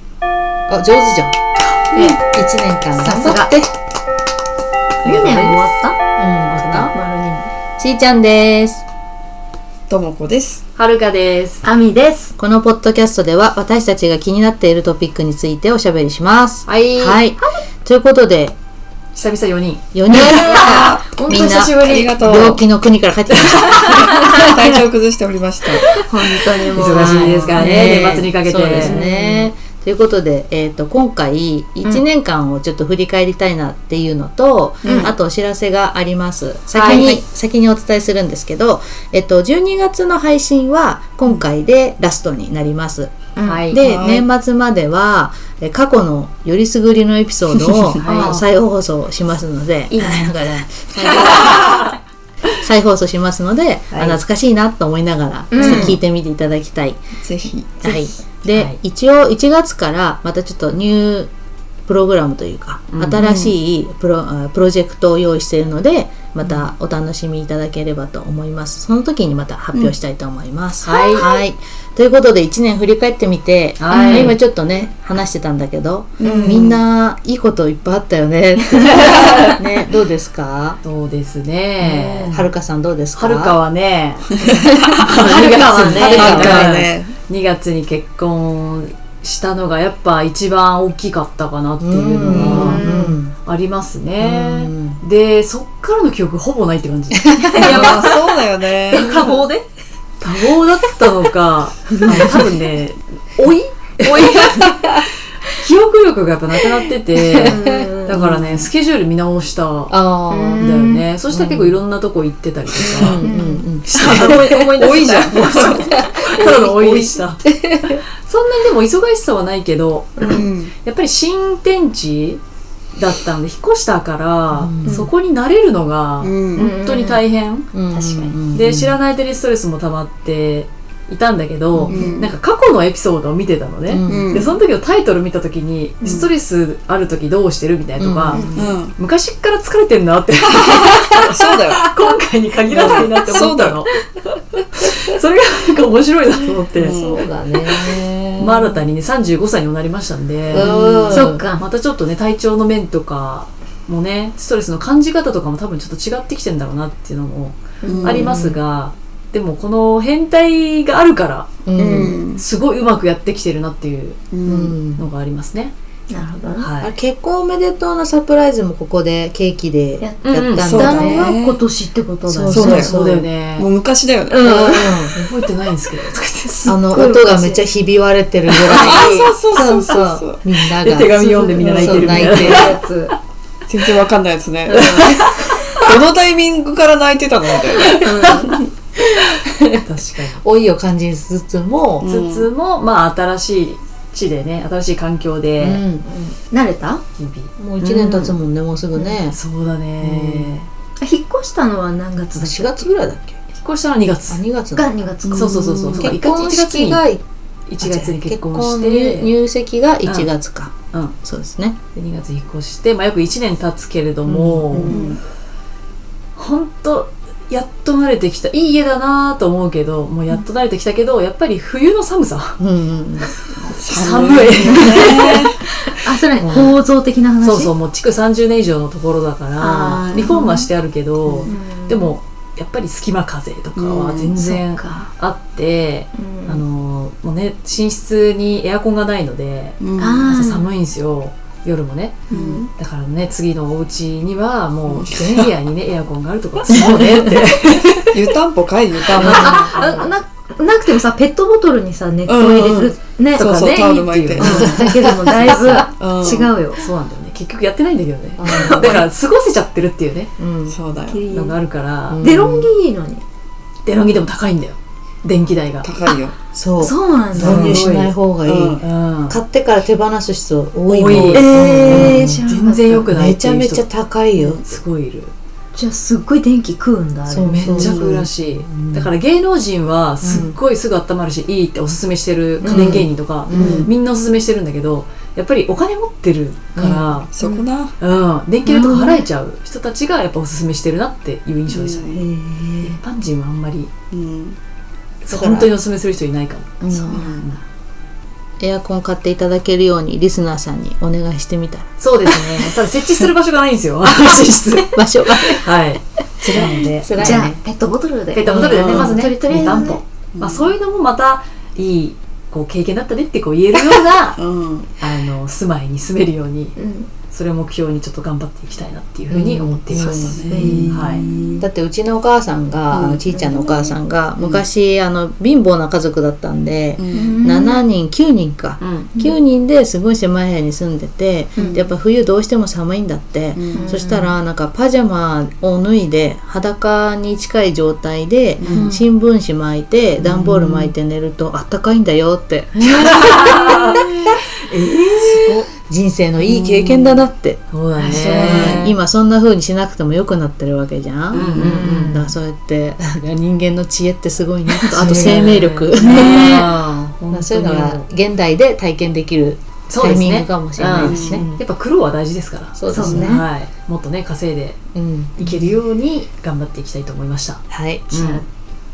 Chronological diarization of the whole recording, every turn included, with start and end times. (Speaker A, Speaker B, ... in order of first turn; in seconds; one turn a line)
Speaker A: 0.7-1.4
Speaker B: 1.9-2.2
Speaker A: 1.9-3.7
Speaker B: 3.0-3.5
Speaker C: 5.0-5.6
Speaker B: 5.0-6.0
Speaker A: 6.2-6.9
Speaker C: 6.5-6.9
Speaker B: 6.9-7.5
Speaker A: 7.8-8.8
Speaker D: 9.9-10.6
Speaker C: 10.8-11.6
Speaker B: 11.6-12.3
Speaker A: 12.4-18.6
Speaker C: 16.7-17.2
Speaker C: 19.2-19.9
Speaker A: 19.9-24.1
Speaker B: 20.1-22.2
Speaker D: 20.2-22.6
Speaker C: 23.6-23.9
Speaker D: 23.8-25.9
Speaker B: 24.1-24.8
Speaker B: 25.7-28.1
Speaker C: 26.6-29.0
Speaker A: 26.8-51.9
Speaker B: 28.8-29.5
Speaker D: 34.8-35.1
Speaker B: 34.9-35.1
Speaker C: 36.7-37.2
Speaker B: 43.4-43.7
Speaker C: 43.4-43.8
Speaker D: 43.7-44.3
Speaker C: 48.0-48.4
Speaker B: 48.0-48.4
Speaker B: 49.9-50.4
Speaker B: 51.2-51.9
Speaker C: 51.4-51.8
Speaker A: 52.6-57.0
Speaker B: 55.5-56.0
Speaker D: 55.6-56.0
Speaker D: 57.2-57.8
Speaker A: 57.8-61.3
Speaker C: 58.5-58.8
Speaker A: 61.9-80.8
Speaker C: 62.9-63.2
Speaker D: 63.2-63.6
Speaker C: 70.8-71.3
Speaker B: 71.0-71.4
Speaker C: 73.8-74.4
Speaker B: 73.9-74.3
Speaker D: 76.2-76.8
Speaker B: 76.2-76.6
Speaker C: 79.1-79.5
Speaker C: 80.8-82.5
Speaker A: 81.8-83.6
Speaker C: 83.2-98.1
Speaker A: 84.4-86.7
Speaker B: 85.8-86.1
Speaker D: 86.0-87.2
Speaker A: 91.8-93.3
Speaker B: 92.3-93.2
Speaker A: 94.2-95.0
Speaker A: 97.2-97.8
Speaker B: 97.5-98.2
Speaker D: 97.6-99.5
Speaker B: 98.9-99.6
Speaker C: 100.2-104.7
Speaker A: 102.0-102.5
Speaker B: 104.1-104.8
Speaker A: 104.2-105.0
Speaker C: 105.5-110.0
Speaker B: 107.3-108.2
Speaker A: 107.5-108.5
Speaker A: 109.9-111.8
Speaker B: 110.3-111.0
Speaker C: 110.6-113.3
Speaker D: 112.8-113.2
Speaker A: 112.9-114.4
Speaker B: 113.2-116.2
Speaker C: 113.8-117.4
Speaker D: 113.9-117.3
Speaker A: 115.7-116.2
Speaker A: 117.5-118.0
Speaker C: 118.2-122.4
Speaker B: 120.2-120.5
Speaker D: 120.2-120.7
Speaker C: 123.0-127.7
Speaker A: 124.5-125.1
Speaker D: 126.2-126.7
Speaker B: 126.6-127.2
Speaker A: 127.7-129.0
Speaker B: 127.9-128.3
Speaker C: 128.5-143.9
Speaker A: 131.8-132.1
Speaker D: 131.9-132.3
Speaker A: 133.9-134.6
Speaker D: 134.1-134.6
Speaker D: 136.0-136.3
Speaker A: 138.0-138.7
Speaker B: 138.3-138.7
Speaker D: 138.5-138.9
Speaker D: 140.5-141.9
Speaker D: 142.7-143.8
Speaker C: 144.7-147.0
Speaker A: 146.4-148.8
Speaker D: 146.8-147.3
Speaker C: 148.4-164.3
Speaker A: 150.5-151.4
Speaker D: 150.6-151.0
Speaker B: 151.1-151.7
Speaker B: 157.8-158.3
Speaker D: 157.9-158.4
Speaker A: 158.1-158.6
Speaker A: 161.7-162.2
Speaker D: 161.8-162.4
Speaker D: 164.3-164.8
Speaker A: 164.4-165.1
Speaker C: 165.0-165.7
Speaker B: 166.1-166.7
Speaker C: 166.6-166.9
Speaker A: 166.8-171.3
Speaker B: 170.0-172.7
Speaker C: 170.2-170.9
Speaker D: 170.6-171.6
Speaker A: 172.3-173.3
Speaker D: 172.5-173.0
Speaker C: 172.5-173.7
Speaker D: 173.6-174.6
Speaker B: 174.3-175.0
Speaker A: 174.4-175.2
Speaker C: 175.1-176.8
Speaker B: 176.5-177.6
Speaker A: 176.7-182.7
Speaker C: 178.5-179.1
Speaker D: 178.7-180.4
Speaker C: 180.6-182.7
Speaker B: 181.2-183.2
Speaker D: 181.8-182.4
Speaker D: 183.7-188.6
Speaker B: 184.7-185.8
Speaker C: 184.7-185.6
Speaker B: 187.8-188.6
Speaker A: 189.3-189.8
Speaker C: 189.8-190.4
Speaker A: 190.4-192.1
Speaker D: 192.0-192.5
Speaker C: 192.0-195.8
Speaker A: 195.6-196.1
Speaker B: 196.0-197.0
Speaker C: 197.2-198.4
Speaker A: 197.6-199.4
Speaker C: 199.0-200.7
Speaker A: 200.0-200.5
Speaker B: 201.0-202.9
Speaker A: 202.4-203.4
Speaker C: 203.5-204.4
Speaker A: 204.3-204.9
Speaker B: 204.8-205.6
Speaker D: 205.2-206.2
Speaker C: 205.3-207.1
Speaker A: 205.9-207.2
Speaker C: 207.7-209.3
Speaker A: 207.8-211.8
Speaker C: 210.0-210.3
Speaker C: 211.9-215.0
Speaker A: 214.3-214.8
Speaker D: 214.7-215.2
Speaker B: 214.9-215.2
Speaker C: 216.4-222.6
Speaker A: 222.6-223.3
Speaker C: 223.2-225.5
Speaker D: 223.6-225.6
Speaker B: 224.6-227.7
Speaker C: 226.4-226.8
Speaker C: 227.4-248.2
Speaker B: 229.6-230.7
Speaker B: 231.5-232.1
Speaker D: 233.8-234.3
Speaker B: 234.4-235.1
Speaker B: 236.2-236.6
Speaker D: 239.8-240.3
Speaker B: 240.0-240.7
Speaker D: 242.3-242.7
Speaker B: 242.3-242.7
Speaker D: 244.9-245.5
Speaker A: 246.8-247.2
Speaker D: 248.1-250.1
Speaker B: 249.1-256.8
Speaker C: 249.2-250.0
Speaker D: 252.3-254.7
Speaker C: 254.1-255.8
Speaker A: 254.4-255.6
Speaker D: 256.0-256.6
Speaker C: 256.8-260.3
Speaker A: 258.4-259.1
Speaker A: 260.4-260.8
Speaker D: 260.7-261.2
Speaker B: 261.1-261.6
Speaker C: 261.3-262.2
Speaker A: 262.1-262.7
Speaker B: 262.2-263.2
Speaker C: 263.9-265.9
Speaker D: 265.8-266.4
Speaker A: 266.5-274.6
Speaker B: 266.8-267.8
Speaker C: 267.4-268.2
Speaker D: 268.4-268.8
Speaker C: 268.8-269.4
Speaker C: 270.9-273.9
Speaker B: 271.1-273.1
Speaker D: 274.4-274.6
Speaker C: 274.6-275.3
Speaker B: 275.7-277.7
Speaker A: 277.3-279.1
Speaker C: 277.4-287.3
Speaker D: 277.7-278.3
Speaker A: 280.2-280.6
Speaker B: 282.6-283.0
Speaker A: 282.7-283.9
Speaker D: 282.7-283.9
Speaker B: 283.6-283.8
Speaker A: 286.8-287.2
Speaker D: 287.3-288.0
Speaker C: 288.0-292.2
Speaker A: 288.7-289.2
Speaker D: 291.7-292.2
Speaker B: 292.1-293.0
Speaker C: 292.8-293.9
Speaker D: 294.1-294.6
Speaker C: 295.2-297.6
Speaker A: 295.3-295.7
Speaker B: 296.8-297.4
Speaker D: 297.1-297.4
Speaker A: 298.6-301.9
Speaker C: 302.0-307.4
Speaker A: 304.9-305.7
Speaker D: 306.4-306.9
Speaker A: 306.6-307.6
Speaker B: 307.1-310.0
Speaker C: 308.3-314.4
Speaker A: 308.4-309.9
Speaker D: 308.6-309.2
Speaker D: 310.3-310.8
Speaker D: 314.4-315.0
Speaker C: 315.0-316.8
Speaker B: 316.8-317.1
Speaker C: 317.3-321.2
Speaker A: 319.3-321.0
Speaker D: 319.9-321.6
Speaker B: 320.3-321.7
Speaker A: 321.6-344.2
Speaker D: 322.9-323.2
Speaker B: 323.3-324.0
Speaker D: 324.4-324.6
Speaker D: 327.0-327.4
Speaker B: 327.1-327.8
Speaker C: 328.8-329.1
Speaker B: 331.6-331.9
Speaker D: 333.6-333.9
Speaker B: 333.7-334.4
Speaker D: 338.6-338.9
Speaker C: 338.7-339.0
Speaker C: 340.2-340.9
Speaker C: 342.8-345.6
Speaker D: 345.2-345.7
Speaker A: 345.7-347.6
Speaker C: 346.4-349.0
Speaker B: 348.0-348.8
Speaker A: 348.4-361.4
Speaker C: 351.3-352.4
Speaker C: 354.8-358.1
Speaker B: 355.0-355.4
Speaker C: 359.9-364.8
Speaker D: 361.0-361.4
Speaker B: 361.2-361.6
Speaker A: 362.8-363.5
Speaker B: 362.9-363.3
Speaker A: 364.9-365.8
Speaker C: 365.4-368.4
Speaker A: 367.7-368.1
Speaker B: 368.1-368.4